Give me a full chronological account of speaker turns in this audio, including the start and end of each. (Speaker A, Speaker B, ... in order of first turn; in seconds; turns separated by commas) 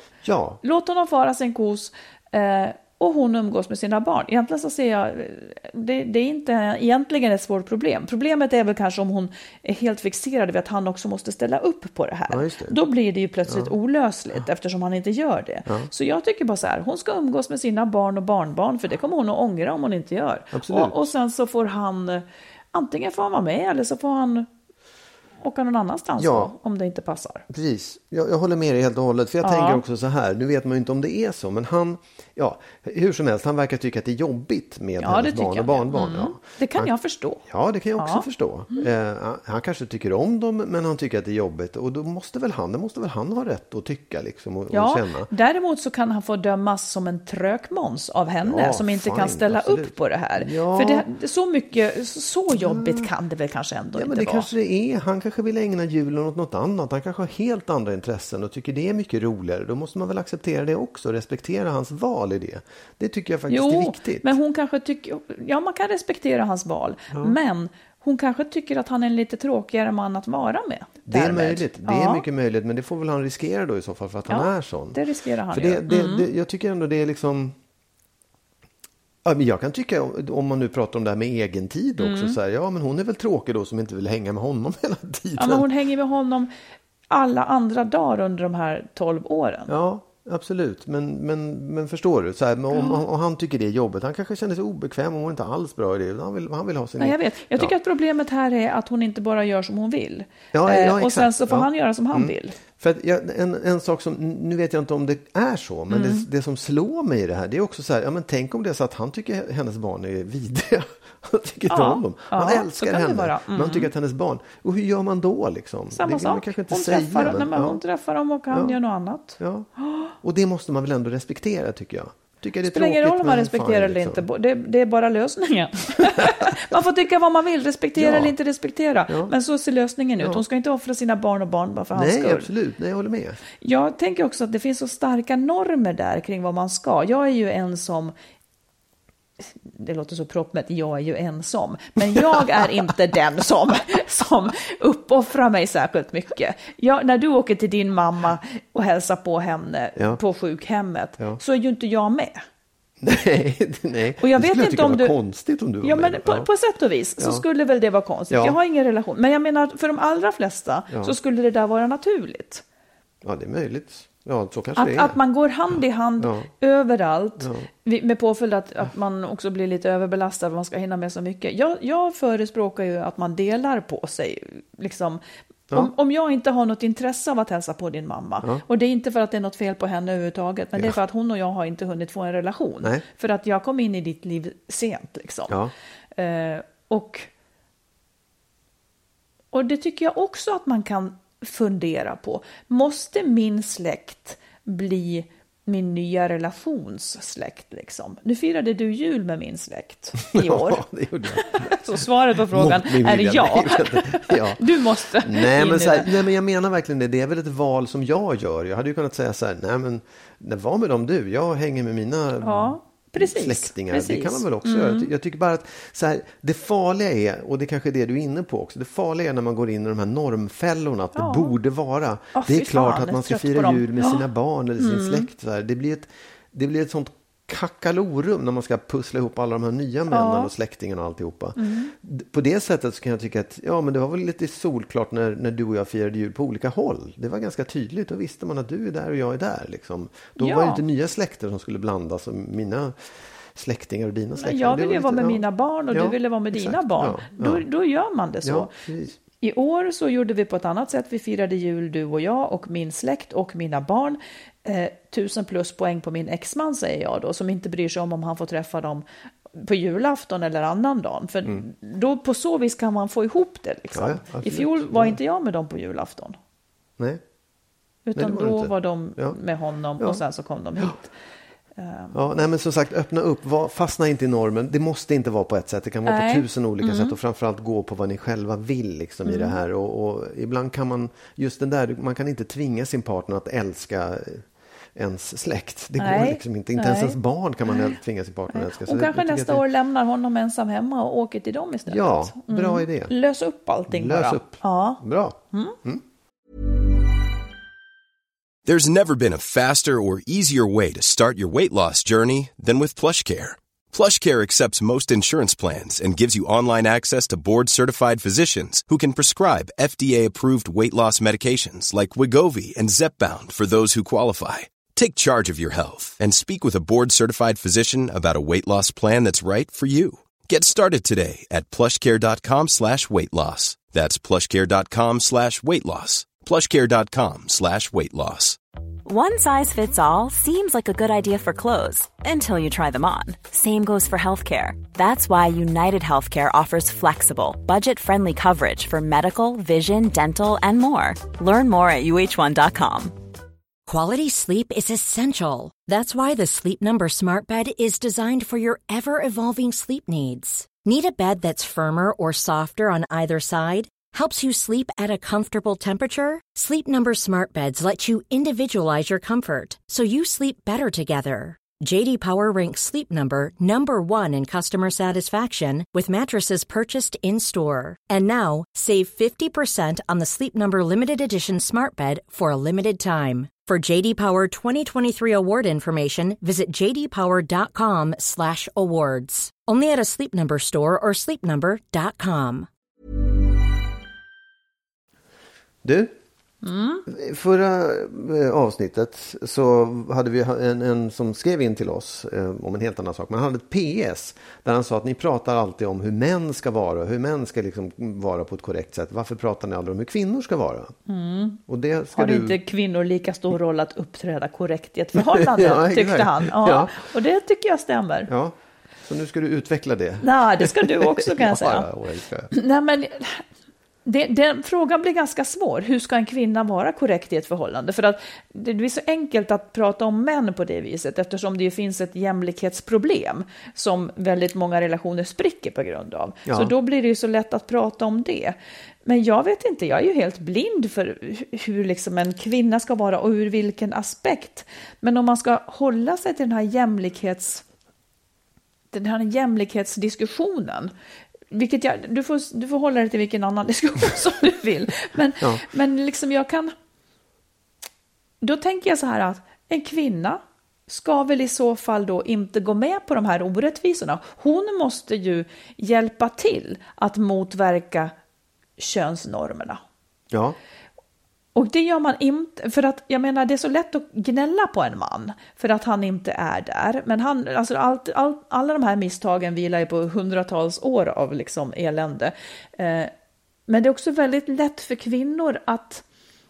Speaker A: 0.2-0.6, Speaker B: 0.6-24.5, Speaker A: 12.3-12.8, Speaker A: 13.5-13.7, Speaker A: 20.5-21.1, Speaker B: 25.4-27.4, Speaker A: 26.2-26.5, Speaker A: 27.5-36.9, Speaker B: 29.4-29.8, Speaker B: 35.0-37.4, Speaker A: 37.4-45.3, Speaker B: 38.0-38.9, Speaker B: 44.7-54.5, Speaker A: 48.4-51.1, Speaker A: 52.5-53.1, Speaker A: 54.0-64.3, Speaker B: 63.5-72.2, Speaker A: 67.1-67.4, Speaker A: 71.1-77.6, Speaker B: 74.3-76.3, Speaker A: 79.2-85.7, Speaker B: 82.0-82.3, Speaker B: 85.4-86.5, Speaker B: 87.1-89.7, Speaker A: 89.7-97.7, Speaker B: 92.7-93.0, Speaker B: 97.0-102.6, Speaker A: 100.5-117.8, Speaker B: 105.9-106.2, Speaker B: 111.7-113.9, Speaker B: 115.9-120.1, Speaker A: 118.5-118.8, Speaker A: 119.4-119.7, Speaker A: 120.2-124.2, Speaker B: 122.7-132.5, Speaker A: 126.2-126.5, Speaker A: 128.0-128.3, Speaker A: 129.1-129.3, Speaker A: 131.9-133.4, Speaker B: 133.6-138.1, Speaker B: 139.6-152.4, Speaker A: 153.0-156.5, Speaker B: 154.2-155.2, Speaker B: 155.8-162.6, Speaker A: 157.2-157.4, Speaker A: 158.3-158.6, Speaker A: 163.2-165.2, Speaker B: 164.8-175.2, Speaker A: 166.2-166.5, Speaker A: 167.4-167.7, Speaker B: 175.7-185.6, Speaker B: 186.2-187.3, Speaker B: 189.5-200.8, Speaker A: 200.3-201.8, Speaker B: 201.4-206.2, Speaker A: 202.5-247.7, Speaker B: 212.4-215.1, Speaker B: 221.2-221.5, Speaker B: 222.3-224.2, Speaker B: 224.8-225.3, Speaker B: 230.1-230.5, Speaker B: 231.6-231.9, Speaker B: 240.4-240.8, Speaker B: 244.4-248.7, Speaker A: 248.4-249.2, Speaker B: 249.4-259.0, Speaker B: 259.6-266.4, Speaker A: 263.9-265.2, Speaker B: 268.1-271.1, Speaker A: 268.1-269.4, Speaker B: 271.8-272.2, Speaker A: 272.1-289.6, Speaker B: 276.1-277.2, Speaker B: 279.2-279.6, Speaker B: 286.0-287.2, Speaker B: 288.5-295.0, Speaker A: 291.9-293.1, Speaker A: 293.9-296.0, Speaker B: 295.5-295.8, Speaker C: 298.6-328.6, Speaker D: 329.1-343.1, Speaker E: 343.9-382.7, Speaker A: 385.8-386.1, Speaker B: 386.6-387.1, Speaker A: 387.1-400.9, Speaker B: 401.1-401.6, Speaker A: 401.7-402.6, Speaker B: 402.1-408.3, Speaker A: 405.2-407.0, Speaker A: 408.3-412.5, Speaker B: 410.2-411.9, Speaker B: 412.5-413.4, Speaker B: 414.1-437.6, Speaker A: 426.5-426.7, Speaker B: 438.9-440.9, Speaker B: 441.5-446.7, Speaker B: 448.4-458.1, Speaker B: 458.8-459.8, Speaker A: 460.3-460.6, Speaker B: 461.6-473.1, Speaker B: 473.7-476.0